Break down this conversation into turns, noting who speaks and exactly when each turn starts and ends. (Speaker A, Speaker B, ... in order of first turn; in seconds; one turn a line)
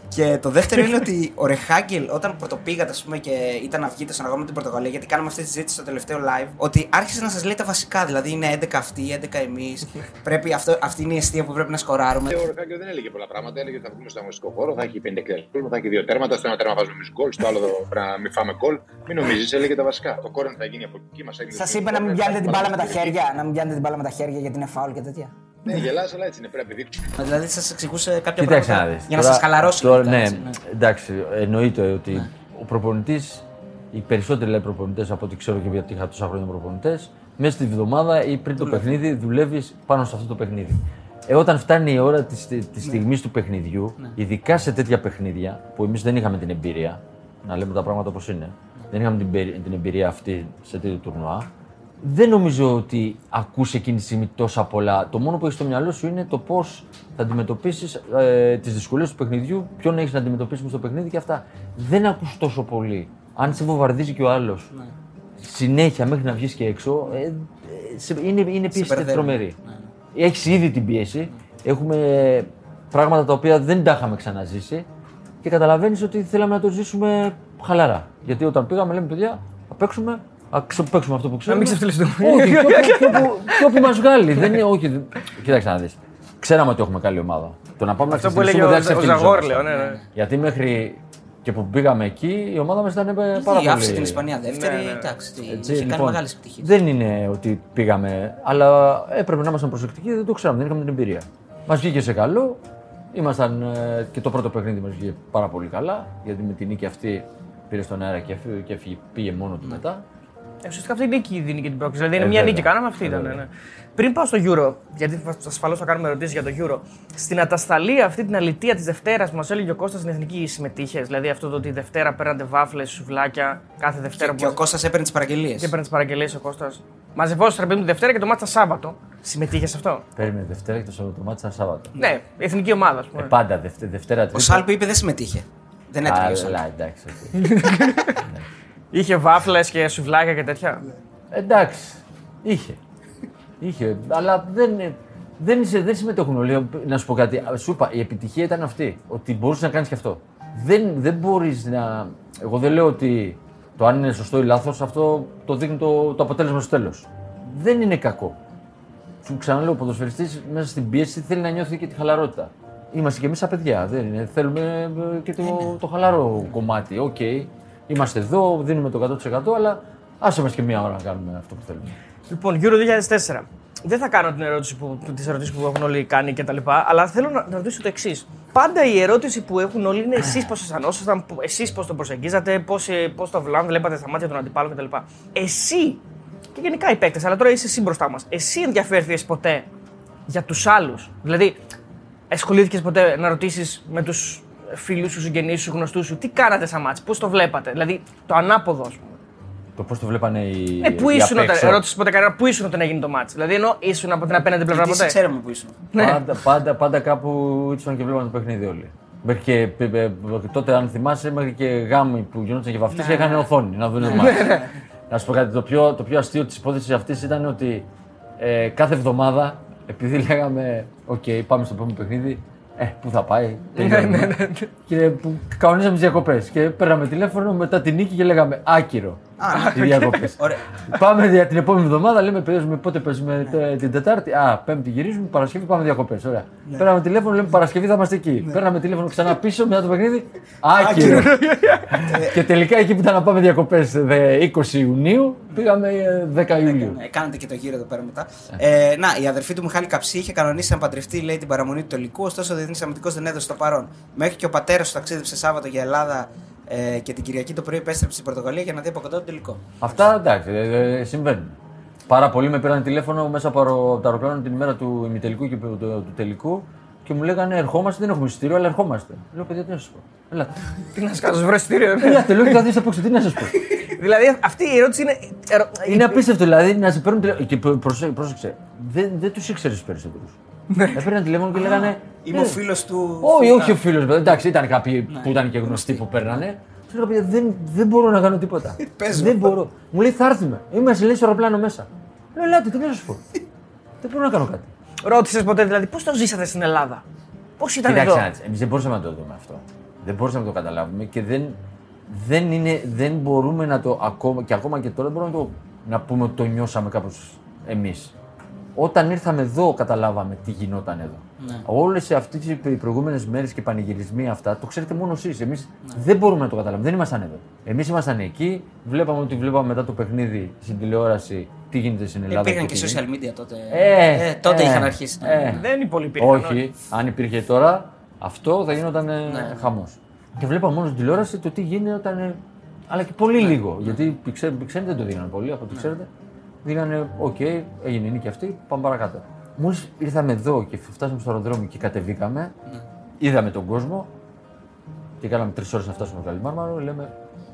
Speaker A: 0.1-12.4
Speaker B: 12.3-23.3
Speaker A: 21.6-25.8
Speaker B: 25.7-27.1
Speaker A: 27.2-30.6
Speaker C: 28.4-51.5
Speaker A: 38.6-38.9
Speaker C: 52.0-64.7
Speaker C: 65.4-69.5
Speaker A: 68.7-69.9
Speaker C: 70.2-74.9
Speaker C: 75.4-94.3
Speaker D: 81.5-83.9
Speaker D: 88.1-90.0
Speaker A: 89.7-90.0
Speaker A: 93.3-96.7
Speaker D: 94.5-95.1
Speaker C: 95.5-102.6
Speaker C: 103.1-110.0
Speaker D: 110.6-124.6
Speaker C: 112.2-113.4
Speaker A: 124.2-125.7
Speaker D: 125.6-130.1
Speaker C: 130.2-131.9
Speaker D: 132.0-133.3
Speaker C: 133.2-134.7
Speaker A: 134.3-136.6
Speaker C: 136.0-137.5
Speaker D: 137.3-138.2
Speaker C: 138.2-138.4
Speaker D: 138.9-140.8
Speaker C: 141.3-142.8
Speaker C: 143.6-158.4
Speaker C: 159.2-171.9
Speaker D: 172.3-186.0
Speaker D: 186.5-189.7
Speaker D: 190.3-191.6
Speaker D: 192.3-199.2
Speaker C: 199.8-201.9
Speaker D: 200.8-205.2
Speaker A: 204.6-205.8
Speaker D: 205.9-206.2
Speaker C: 205.9-241.4
Speaker A: 212.9-213.4
Speaker A: 214.0-214.7
Speaker D: 214.1-214.7
Speaker D: 223.8-224.7
Speaker A: 229.4-230.6
Speaker D: 229.5-230.3
Speaker A: 240.8-242.4
Speaker D: 241.0-242.1
Speaker C: 241.9-247.0
Speaker A: 246.6-260.1
Speaker C: 259.8-270.6
Speaker D: 270.9-272.6
Speaker C: 272.0-273.7
Speaker D: 273.7-276.2
Speaker C: 275.9-280.4
Speaker D: 280.7-281.0
Speaker C: 280.9-282.6
Speaker A: 281.5-283.8
Speaker C: 283.2-293.2
Speaker A: 285.1-286.3
Speaker A: 288.8-289.6
Speaker C: 294.0-294.7
Speaker D: 295.0-297.0
Speaker D: 297.6-298.3
Speaker C: 297.8-301.6
Speaker C: 302.1-308.1
Speaker C: 308.8-323.0
Speaker A: 311.4-311.7
Speaker A: 322.3-325.6
Speaker C: 323.7-325.6
Speaker D: 325.5-326.6
Speaker C: 326.2-336.1
Speaker A: 329.3-329.7
Speaker A: 333.4-334.1
Speaker C: 336.6-342.5
Speaker C: 343.2-344.1
Speaker C: 345.2-347.1